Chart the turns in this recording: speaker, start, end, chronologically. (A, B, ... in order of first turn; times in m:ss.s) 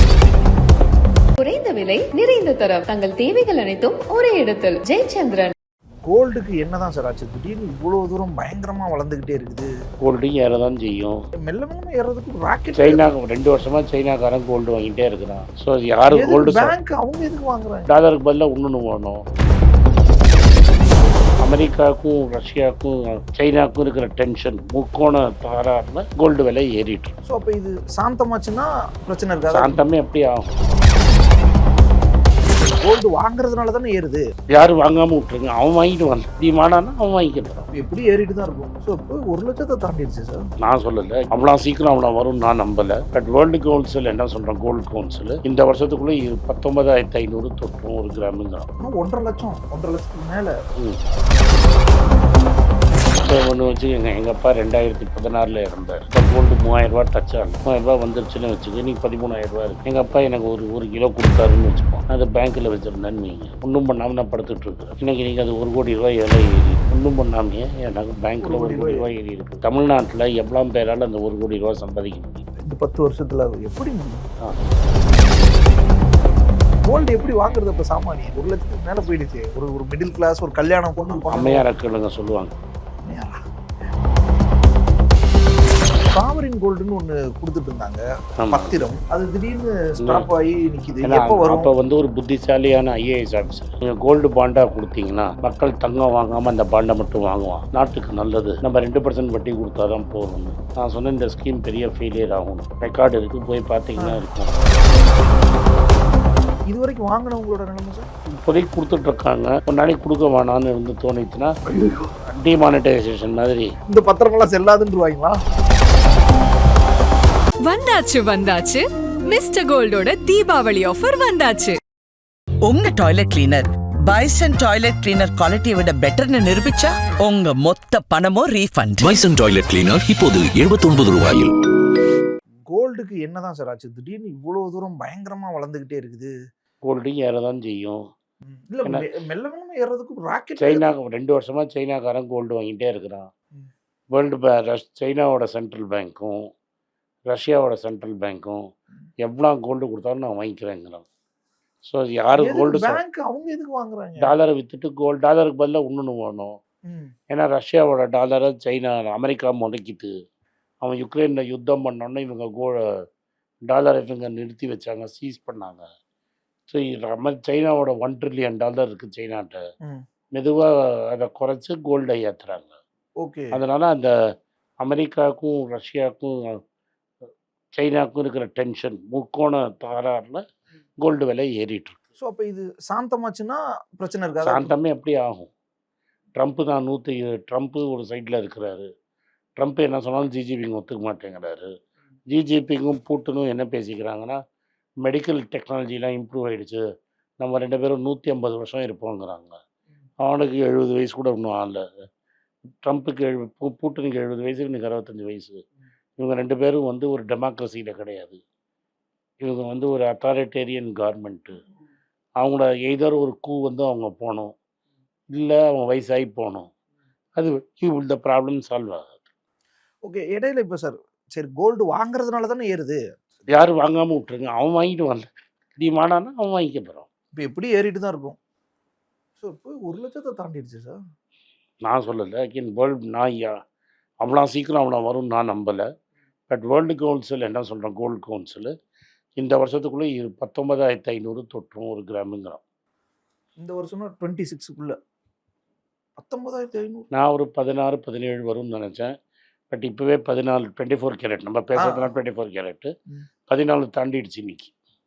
0:01.4-0:05.5 A
0:06.0-0:09.7 B
0:10.0-0:11.2 C
0:11.4-0:13.0 B
0:12.8-0:16.7 C
0:16.1-0:17.9 B
0:17.9-0:19.2 C
0:21.4-0:27.2 C
0:27.3-0:29.8 B
0:29.5-0:30.5 C
0:32.6-0:34.2 B
0:34.5-0:37.6 C
0:37.7-0:40.4 B
0:40.6-0:48.7 C
0:48.8-0:50.5 B
0:53.3-1:12.5 C
1:08.4-1:09.1 B
1:12.6-1:14.2 B
1:16.9-1:21.7 B
1:21.2-1:22.6 C
1:23.0-1:23.4 B
1:26.1-1:31.7 B
1:28.4-1:28.7 C
1:31.0-1:44.5 C
1:46.7-1:48.1 B
1:48.4-1:51.5 C
1:51.8-1:52.0 B
1:52.3-1:53.7 C
1:53.9-1:55.4 B
1:57.6-2:01.8 D
2:02.7-2:09.1 E
2:09.0-2:11.5 F
2:12.7-2:16.3 B
2:16.8-2:18.0 C
2:18.5-2:20.8 B
2:20.6-2:23.3 C
2:24.1-2:26.4 C
2:27.3-2:28.6 C
2:29.2-2:31.1 C
2:31.9-2:33.0 C
2:32.4-2:34.3 B
2:34.2-2:36.6 C
2:36.9-2:37.1 B
2:37.3-2:40.1 C
2:40.8-2:42.8 C
2:43.7-2:45.9 C
2:46.7-2:49.6 C
2:50.4-2:52.8 C
2:53.2-2:53.5 B
2:53.5-2:54.1 C
2:54.8-2:56.6 C
2:57.8-3:00.4 C
3:01.0-3:02.0 C
3:02.2-3:04.7 B
3:04.4-3:05.5 C
3:06.4-3:08.9 C
3:09.6-3:11.7 C
3:12.3-3:14.4 C
3:15.0-3:16.8 C
3:17.4-3:19.6 C
3:20.2-3:21.8 C
3:22.8-3:25.6 C
3:26.2-3:28.4 C
3:29.4-3:31.6 C
3:32.4-3:34.5 C
3:35.3-3:36.7 C
3:37.4-3:39.3 C
3:40.1-3:43.0 B
3:43.5-3:47.1 C
3:47.4-3:48.4 B
3:49.4-3:51.0 B
3:51.9-3:53.6 C
3:54.2-3:55.8 C
3:56.5-3:58.7 C
3:59.4-4:02.6 C
4:03.6-4:05.0 B
4:06.2-4:07.1 B
4:07.1-4:09.1 C
4:09.7-4:12.9 C
4:11.8-4:12.1 B
4:13.5-4:14.7 C